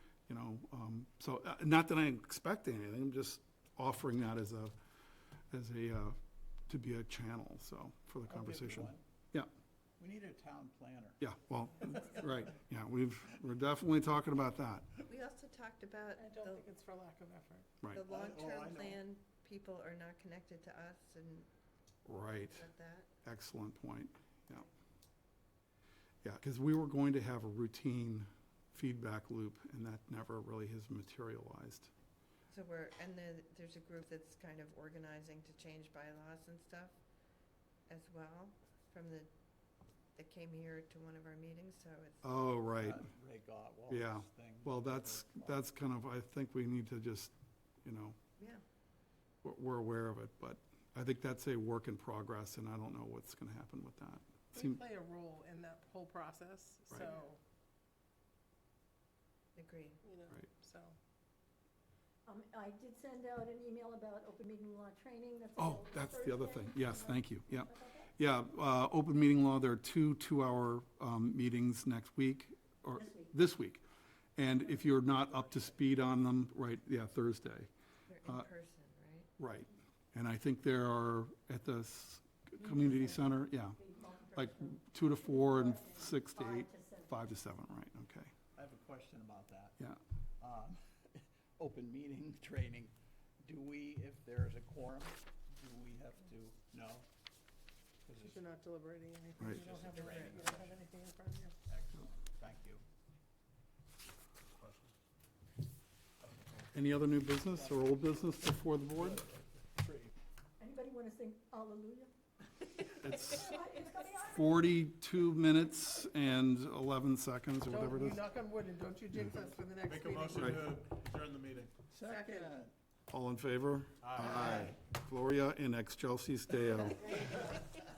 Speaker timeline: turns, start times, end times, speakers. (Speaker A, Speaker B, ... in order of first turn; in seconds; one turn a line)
Speaker A: 0.3-4.7
Speaker A: 5.5-9.5
Speaker B: 8.3-9.0
Speaker B: 10.0-11.2
Speaker A: 11.2-14.9
Speaker C: 15.1-16.7
Speaker D: 16.2-17.7
Speaker C: 17.9-21.5
Speaker E: 18.0-19.0
Speaker A: 22.1-22.7
Speaker C: 22.2-23.1
Speaker A: 23.2-24.6
Speaker A: 26.2-31.9
Speaker C: 32.5-37.0
Speaker C: 37.9-39.3
Speaker C: 40.1-42.2
Speaker A: 42.2-43.0
Speaker B: 42.8-45.6
Speaker A: 43.9-47.3
Speaker A: 47.8-48.2
Speaker C: 48.4-48.6
Speaker A: 49.4-54.8
Speaker D: 54.5-57.4
Speaker C: 59.5-60.0
Speaker D: 60.0-61.0
Speaker F: 62.2-68.1
Speaker A: 65.6-73.8
Speaker F: 73.0-73.3
Speaker A: 74.3-77.7
Speaker C: 78.1-79.3
Speaker A: 79.4-83.8
Speaker F: 82.6-87.1
Speaker A: 84.3-88.3
Speaker B: 88.5-89.8
Speaker B: 90.4-97.1
Speaker B: 98.0-98.4
Speaker D: 98.2-101.5
Speaker B: 99.4-100.9
Speaker C: 99.9-100.4
Speaker B: 101.6-102.8
Speaker E: 104.5-104.9
Speaker E: 106.3-106.7
Speaker A: 106.7-109.2
Speaker B: 107.5-108.4
Speaker B: 109.8-110.1
Speaker F: 110.6-112.1
Speaker A: 112.9-113.5
Speaker F: 113.1-114.7
Speaker A: 114.2-118.2
Speaker D: 117.6-120.7
Speaker E: 119.9-121.7
Speaker A: 120.3-120.6
Speaker B: 121.9-122.7
Speaker D: 122.1-122.5
Speaker A: 123.1-127.3
Speaker E: 124.0-124.6
Speaker B: 124.3-124.7
Speaker F: 127.2-127.5